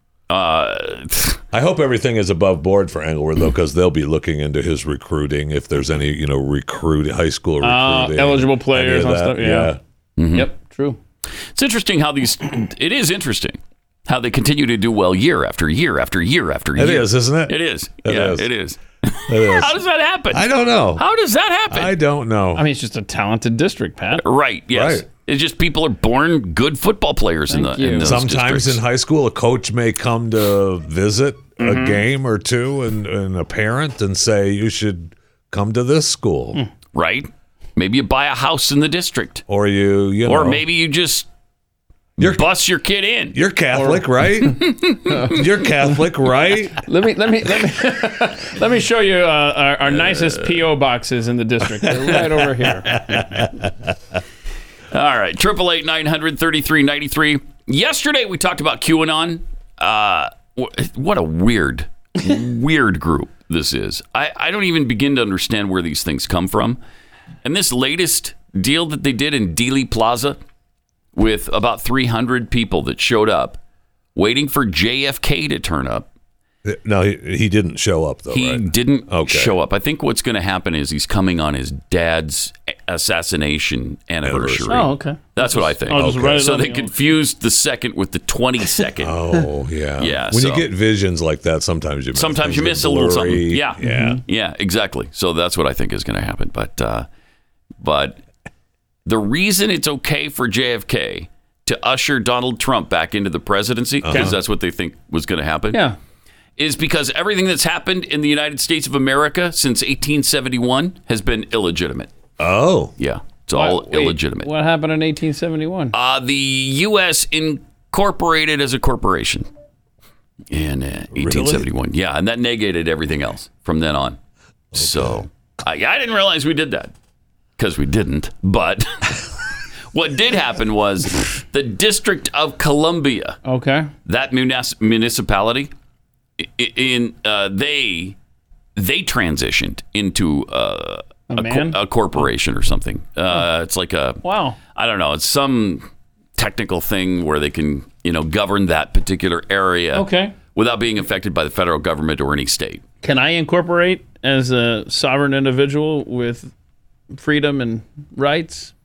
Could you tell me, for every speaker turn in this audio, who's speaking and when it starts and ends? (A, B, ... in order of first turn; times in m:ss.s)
0:00.3-0:01.4 A
0:01.5-0:09.8 B
0:07.6-0:09.7 C
0:10.2-0:10.5 A
0:10.3-0:11.0 C
0:11.5-0:22.0 A
0:16.8-0:18.5 B
0:19.3-0:19.8 B
0:20.3-0:21.0 B
0:21.7-0:22.6 B
0:22.5-0:24.2 C
0:24.2-0:28.8 A
0:24.7-0:25.0 B
0:27.5-0:28.1 C
0:28.0-0:36.6 B
0:31.6-0:32.0 C
0:36.9-0:39.4 A
0:39.5-0:40.6 B
0:40.2-0:41.3 A
0:42.2-0:42.4 B
0:42.2-0:43.4 A
0:43.3-0:44.6 B
0:43.7-0:44.5 C
0:44.7-0:44.9 A
0:45.1-0:46.0 C
0:45.2-0:46.8 B
0:46.7-0:53.4 C
0:49.9-0:50.7 A
0:53.1-0:53.4 B
0:54.9-1:06.8 A
1:07.4-1:10.4 A
1:11.1-1:13.6 A
1:14.1-1:16.1 A
1:16.6-1:19.5 B
1:18.3-1:29.2 A
1:24.2-1:24.8 B
1:24.7-1:26.9 C
1:25.9-1:26.5 B
1:29.0-1:34.2 B
1:30.0-1:30.7 A
1:32.1-1:37.1 A
1:33.8-1:34.2 C
1:37.8-1:38.2 A
1:39.1-1:45.8 A
1:44.0-1:44.4 B
1:46.6-1:52.1 A
1:52.4-1:52.9 B
1:53.0-1:54.5 A
1:53.6-1:55.9 C
1:55.9-1:59.5 A
2:00.5-2:04.2 A
2:01.1-2:01.7 B
2:04.7-2:05.2 B
2:04.7-2:06.9 A
2:07.6-2:09.2 A
2:09.9-2:13.4 A
2:13.4-2:13.9 C
2:14.1-2:15.7 A
2:16.4-2:18.2 A
2:18.8-2:24.2 A
2:21.3-2:21.8 C
2:24.2-2:24.6 C
2:24.7-2:32.8 A
2:29.9-2:30.3 C
2:33.0-2:36.5 C
2:37.1-2:38.7 C